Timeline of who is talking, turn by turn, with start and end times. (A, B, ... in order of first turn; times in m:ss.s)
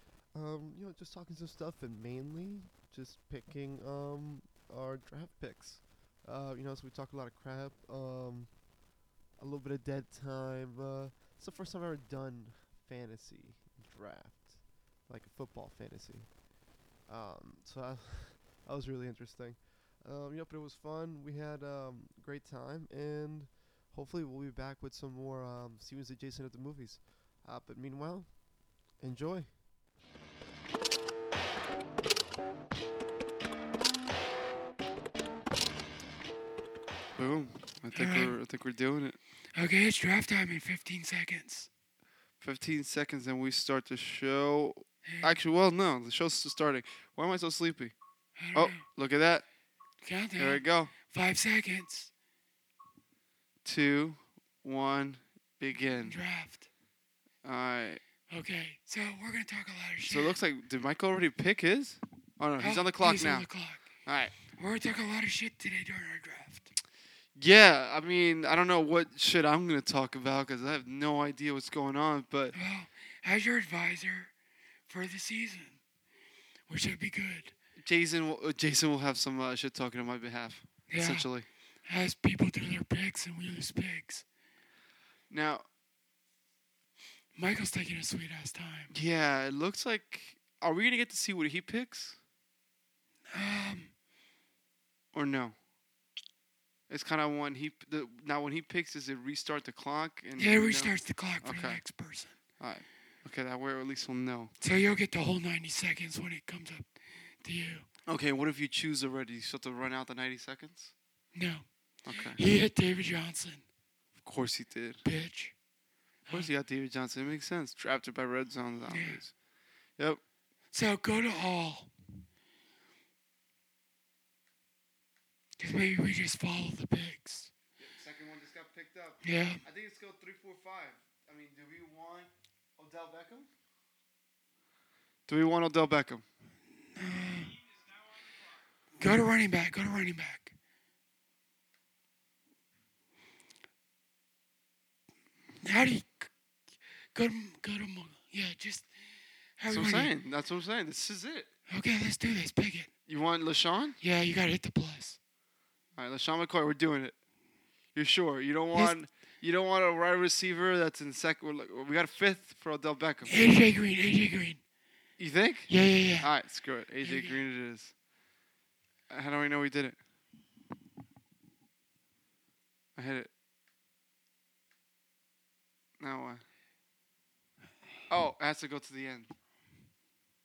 0:00.3-0:08.7 A
0:09.4-0:16.4 A
0:17.0-0:29.6 A
0:37.2-0:39.2 B
0:37.9-0:38.4 C
0:39.6-0:41.7 C
0:42.4-0:47.9 B
0:45.0-0:45.4 C
0:48.4-0:48.9 C
0:48.5-0:49.4 B
0:50.0-0:52.1 C
0:50.4-0:50.9 B
0:53.6-0:56.2 B
0:56.0-0:56.7 C
0:57.4-0:58.0 B
0:58.3-1:00.4 C
1:00.1-1:03.5 B
1:02.6-1:06.7 C
1:04.0-1:04.4 B
1:07.4-1:12.6 B
1:12.6-1:14.3 C
1:14.9-1:15.8 C
1:16.7-1:17.6 C
1:17.8-1:21.5 B
1:20.9-1:21.3 C
1:21.8-1:24.2 C
1:25.3-1:25.6 B
1:27.4-1:28.9 C
1:28.9-1:32.2 B
1:33.3-1:33.9 C
1:35.1-1:35.6 B
1:36.9-1:41.8 B
1:40.4-1:42.4 C
1:42.6-1:44.5 B
1:44.6-1:47.9 C
1:48.1-1:50.9 B
1:51.3-1:53.7 C
1:52.0-1:52.4 B
1:54.2-1:55.0 B
1:55.0-1:55.6 C
1:56.3-1:59.4 B
1:58.9-1:59.2 C
2:00.7-2:01.9 C
2:05.6-2:07.5 C
2:07.8-2:13.5 B
2:09.2-2:09.6 C
2:15.3-2:16.2 B
2:16.9-2:17.6 C
2:19.0-2:20.5 C
2:25.6-2:26.3 C
2:27.1-2:28.9 C
2:29.6-2:30.1 C
2:29.7-2:31.5 B
2:31.7-2:32.9 C
2:33.1-2:34.0 B
2:34.0-2:35.2 C
2:36.0-2:37.2 B
2:37.9-2:43.4 B
2:43.3-2:44.6 C
2:45.2-2:47.9 B
2:45.7-2:46.4 C
2:47.0-2:47.4 C
2:49.1-2:50.0 B
2:53.0-2:53.3 B
2:56.0-2:56.4 B
2:58.1-2:59.3 B